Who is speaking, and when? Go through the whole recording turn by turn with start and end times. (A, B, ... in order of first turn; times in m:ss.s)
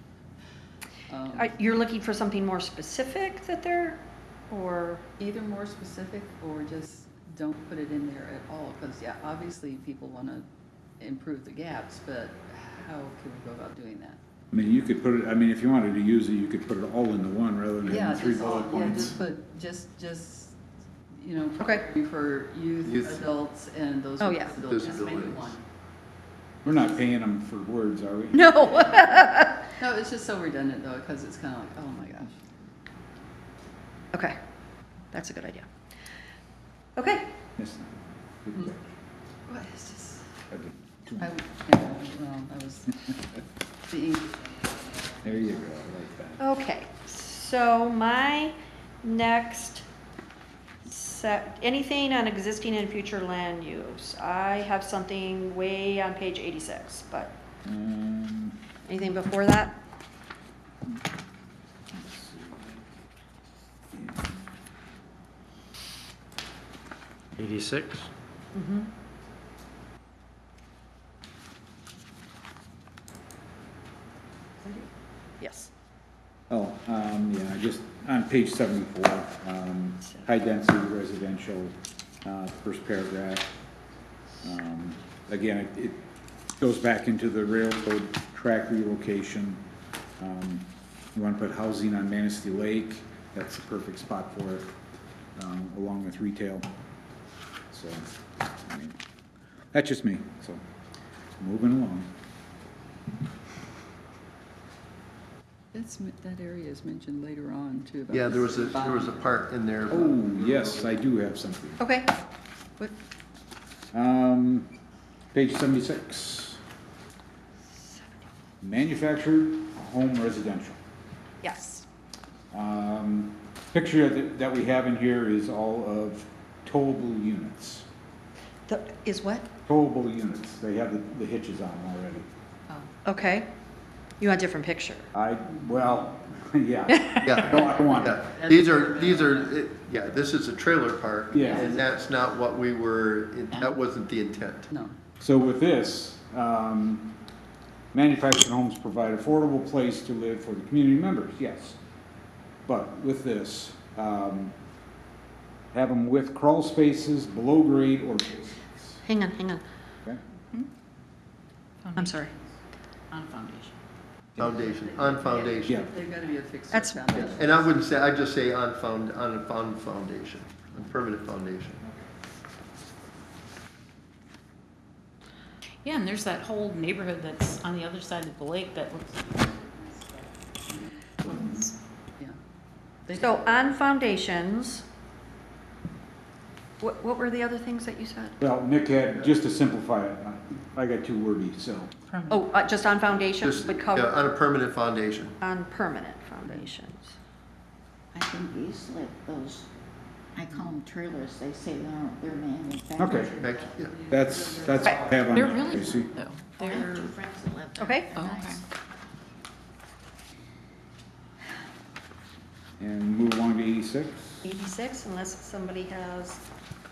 0:01.1-0:01.5 A
0:01.3-0:05.0 B
0:05.2-0:10.5 A
0:11.0-0:14.2 A
0:14.5-0:19.2 C
0:17.8-0:20.6 A
0:21.2-0:25.6 A
0:22.8-0:23.2 D
0:24.2-0:24.5 B
0:24.5-0:25.5 D
0:26.6-0:28.6 C
0:28.3-0:29.6 B
0:29.8-0:32.4 A
0:35.1-0:35.6 B
0:37.0-0:37.4 B
0:37.6-0:38.8 C
0:39.5-0:40.2 A
0:40.5-0:41.3 C
0:41.2-0:43.1 A
0:43.9-0:44.7 A
0:45.2-0:46.4 C
0:46.4-0:49.8 B
0:50.8-0:57.3 B
0:57.6-0:58.6 C
0:58.9-0:59.8 B
1:01.9-1:02.9 C
1:03.9-1:04.3 C
1:08.5-1:08.9 B
1:14.6-1:14.9 B
1:15.4-1:15.7 B
1:16.5-1:23.5 C
1:24.4-1:26.0 C
1:26.6-1:29.6 C
1:30.2-1:34.7 C
1:35.4-1:36.6 C
1:37.7-1:38.1 C
1:38.6-1:39.0 C
1:39.7-1:40.6 C
1:41.4-1:42.1 C
1:45.7-1:49.4 A
1:48.1-1:51.0 D
1:49.9-1:51.8 C
1:51.8-1:52.1 B
1:53.9-1:54.7 C
1:55.3-1:56.6 C
1:57.8-1:58.2 B
1:58.6-2:00.8 C
2:01.4-2:01.8 B
2:02.5-2:07.8 C
2:08.7-2:09.5 B
2:09.7-2:12.3 C
2:13.0-2:13.5 B
2:14.2-2:15.1 B
2:15.1-2:18.2 C
2:16.9-2:17.4 B
2:17.2-2:24.7 D
2:18.2-2:19.7 A
2:21.3-2:21.7 C
2:24.7-2:25.0 A
2:25.2-2:27.1 C
2:27.9-2:31.8 C
2:32.6-2:34.5 C
2:35.7-2:39.0 C
2:39.0-2:39.6 B
2:41.8-2:42.3 E
2:42.0-2:42.3 B
2:43.1-2:43.7 E
2:44.4-2:45.8 D
2:44.4-2:47.7 A
2:46.7-2:47.3 B
2:47.3-2:51.8 D
2:55.8-2:59.5 E
2:59.4-2:59.7 A
3:01.2-3:01.5 E
3:03.1-3:03.6 A
3:03.2-3:04.8 B
3:06.8-3:08.4 B
3:08.4-3:11.9 C
3:12.1-3:12.4 E
3:12.3-3:14.3 B
3:13.4-3:15.4 D
3:15.4-3:17.1 B
3:18.1-3:19.7 F
3:20.3-3:23.7 F
3:23.0-3:23.3 C
3:23.4-3:24.1 D
3:24.1-3:26.1 C
3:25.3-3:27.1 E
3:26.6-3:28.6 F
3:27.8-3:28.1 B
3:28.2-3:28.6 E
3:32.8-3:34.4 C
3:34.4-3:36.4 B